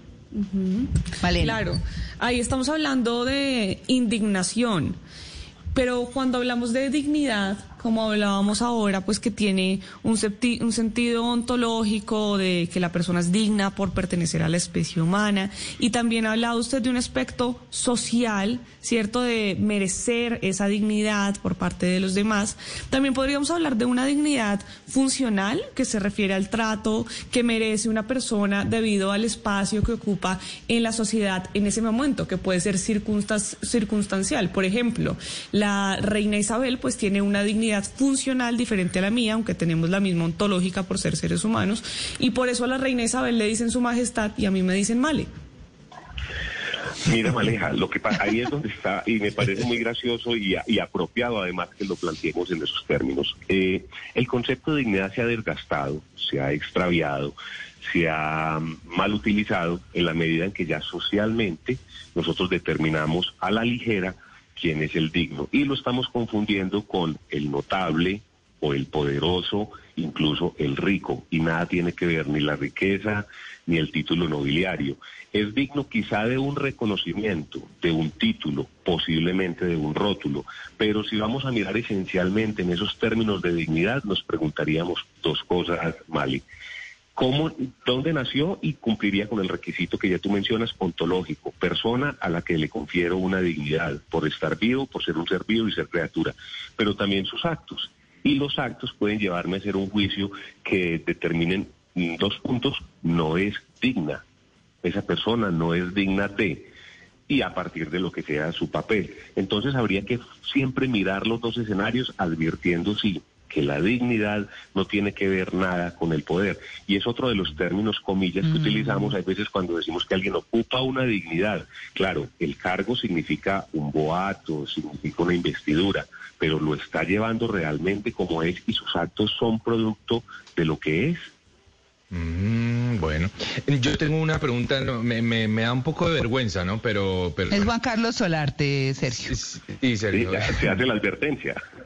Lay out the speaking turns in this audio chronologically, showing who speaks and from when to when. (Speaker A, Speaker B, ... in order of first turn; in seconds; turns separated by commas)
Speaker A: 0.3-5.0, Speaker B: 1.2-1.6, Speaker A: 5.7-45.3, Speaker C: 47.0-86.4, Speaker C: 87.2-104.2, Speaker C: 104.8-106.7, Speaker C: 107.3-131.3, Speaker B: 118.5-119.1, Speaker D: 132.1-137.7, Speaker B: 137.5-139.3, Speaker D: 139.2-140.7, Speaker C: 140.1-141.6